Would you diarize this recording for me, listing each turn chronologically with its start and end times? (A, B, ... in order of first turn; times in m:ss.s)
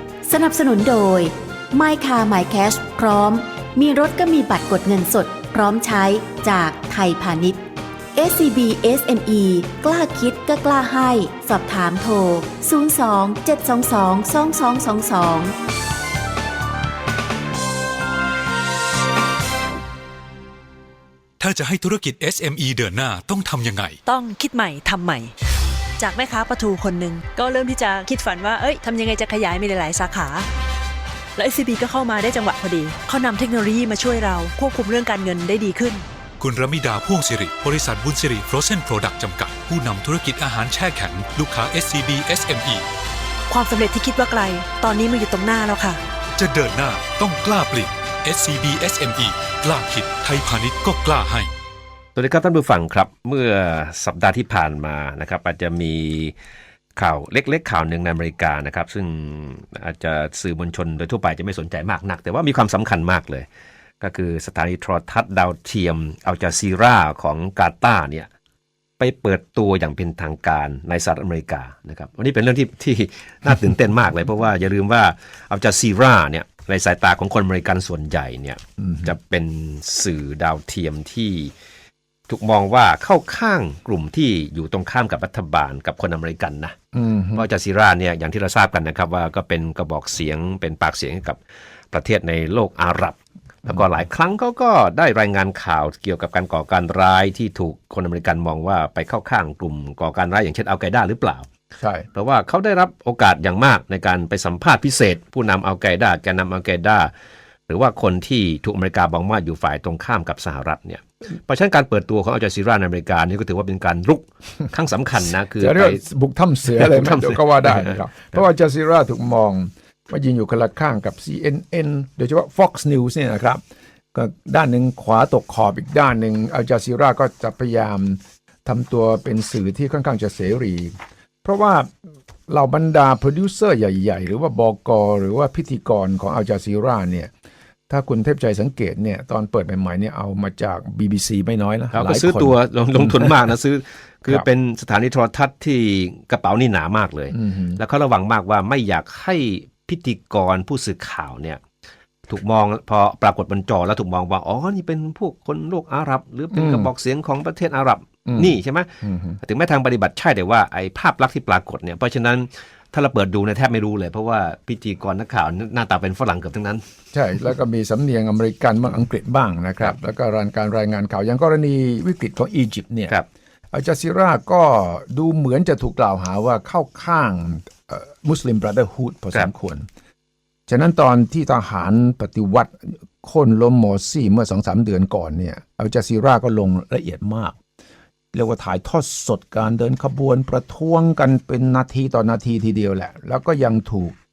0:00.2-0:07.6 A
0:08.1-0:15.5 A
0:21.4-0:24.0 B
0:24.0-0:25.3 C
0:26.0-0:30.5 C
0:31.4-0:36.0 C
0:36.4-0:42.8 B
0:43.5-0:46.0 C
0:46.4-0:51.5 B
0:52.1-0:56.3 D
0:57.0-1:03.5 D
1:04.0-1:08.3 D
1:09.0-1:21.5 D
1:18.8-1:19.1 E
1:22.3-1:26.8 D
1:26.9-1:27.4 E
1:27.3-1:31.4 D
1:31.9-1:41.5 D
1:41.8-1:42.1 E
1:42.1-1:47.1 D
1:47.7-1:56.0 D
1:55.6-2:03.6 E
1:56.6-1:58.4 D
2:04.1-2:10.9 E
2:11.4-2:11.9 E
2:12.5-2:17.3 E
2:17.9-2:23.3 E
2:21.9-2:31.6 D
2:27.3-2:27.8 E
2:32.3-2:46.8 D
2:36.5-2:36.9 E
2:38.2-2:39.4 E
2:47.1-2:53.2 E
2:53.7-2:59.9 E
3:00.7-3:07.6 E
3:08.3-3:14.2 E